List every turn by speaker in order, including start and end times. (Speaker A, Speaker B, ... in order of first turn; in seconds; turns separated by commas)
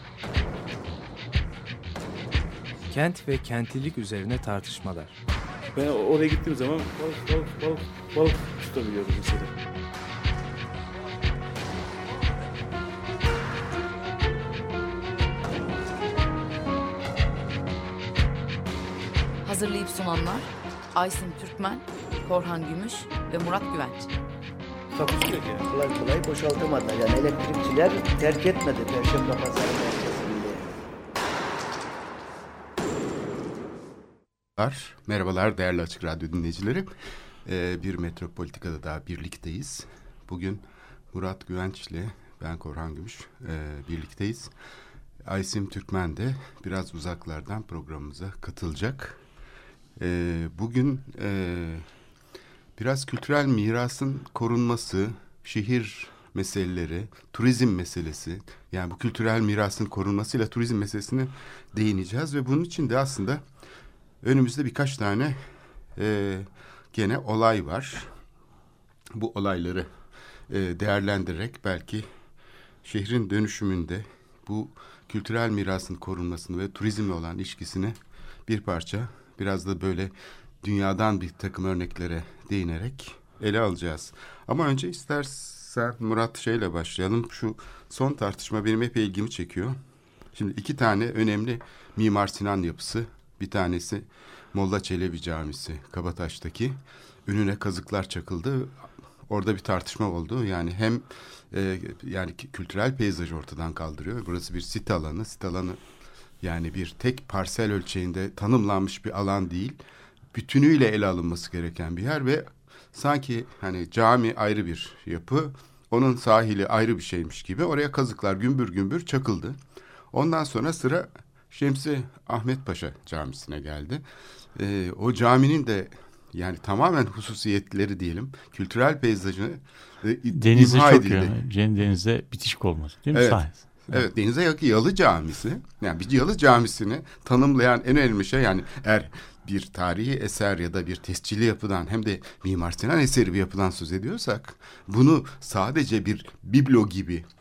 Speaker A: 2.9-5.2, Speaker B: 5.7-9.5, Speaker C: 19.4-24.1, Speaker B: 24.9-25.6, Speaker D: 25.6-30.8, Speaker E: 34.6-36.9, Speaker E: 37.5-44.5, Speaker E: 45.2-49.2, Speaker E: 50.0-51.8, Speaker E: 52.8-63.4, Speaker E: 64.2-65.4, Speaker E: 66.0-68.1, Speaker E: 69.1-69.9, Speaker E: 70.5-72.1, Speaker E: 72.8-77.9, Speaker E: 78.5-89.8, Speaker E: 90.3-105.8, Speaker E: 106.4-109.8, Speaker E: 110.3-119.6, Speaker E: 120.1-124.0, Speaker E: 124.5-131.3, Speaker F: 130.3-134.0, Speaker E: 133.1-147.2